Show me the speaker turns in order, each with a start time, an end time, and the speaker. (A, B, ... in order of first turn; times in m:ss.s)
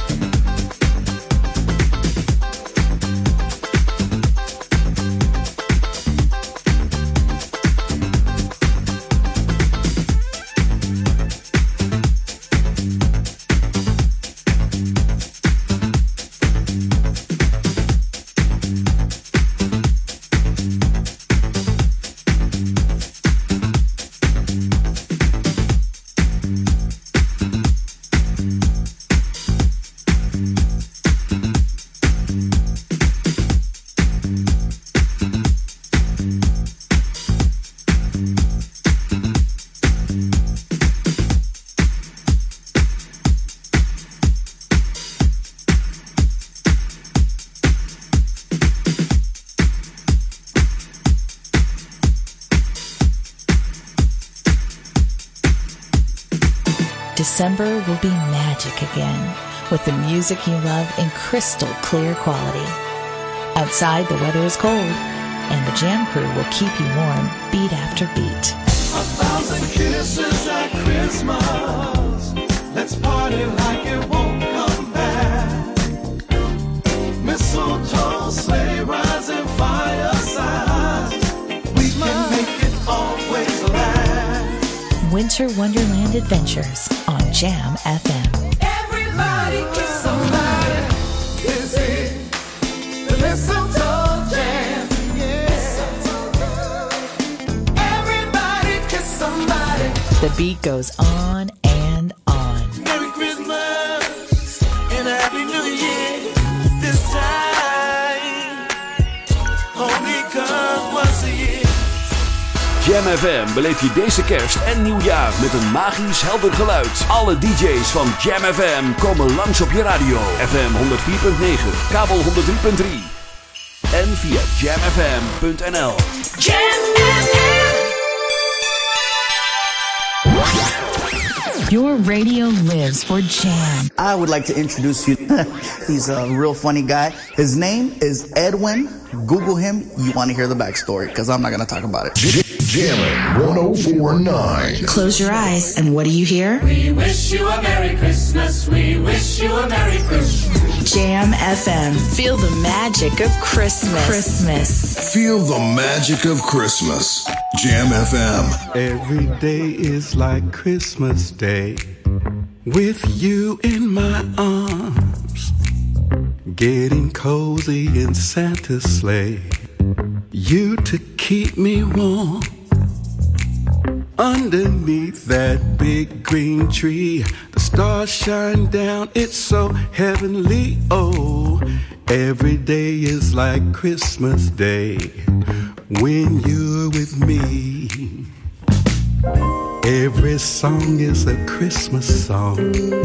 0:57.1-1:02.8 A
1:03.5-1:08.6 A
1:08.9-1:15.8 B
1:17.2-1:21.2 B
1:21.7-1:24.6 B
1:25.0-1:28.4 A
1:29.0-1:30.7 B
1:31.5-1:32.1 B
1:33.1-1:34.2 B
1:35.2-1:36.0 B
1:40.2-1:42.8 A
1:42.8-1:44.2 B
1:44.9-1:48.4 B
1:49.8-1:51.7 B
1:52.8-2:03.1 C
2:03.9-2:06.1 C
2:11.7-2:13.9 A
2:14.0-2:22.2 D
2:22.2-2:25.1 E
2:24.8-2:26.8 A
2:30.8-2:34.9 A
2:35.0-2:38.6 E
2:38.7-2:41.9 F
2:42.6-2:45.5 F
2:46.5-2:49.6 F
2:50.3-2:52.5 F
2:54.2-3:05.2 F
3:05.9-3:08.2 F
3:09.8-3:12.8 F